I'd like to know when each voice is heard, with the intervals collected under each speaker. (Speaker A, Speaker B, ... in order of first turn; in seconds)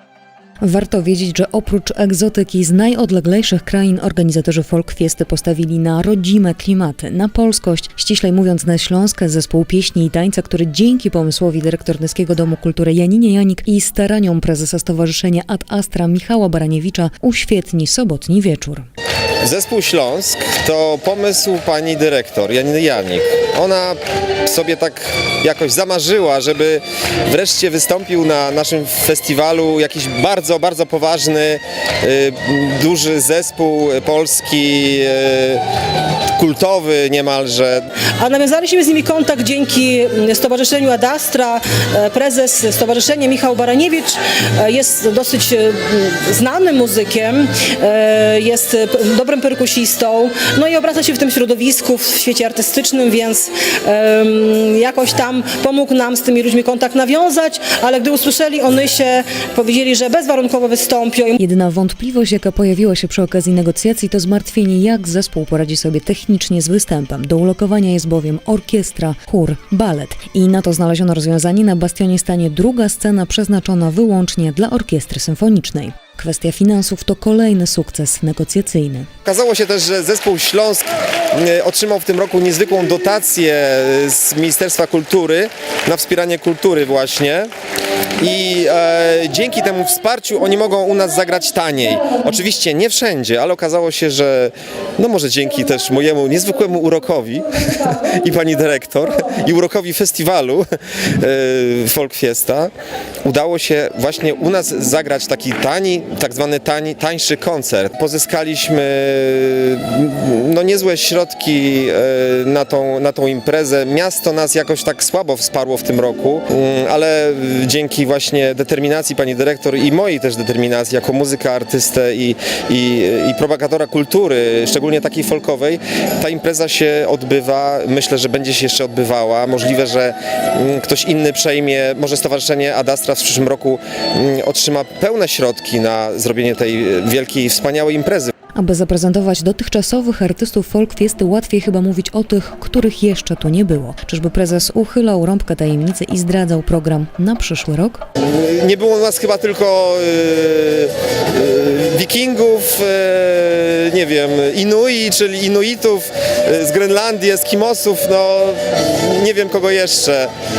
Speaker A: 0.6-18.9, 61.4-79.1, 138.5-148.0
Speaker B: 19.4-35.6, 36.4-37.8, 79.2-87.5, 88.2-102.7, 103.2-138.3, 148.2-160.3
Speaker C: 38.2-61.4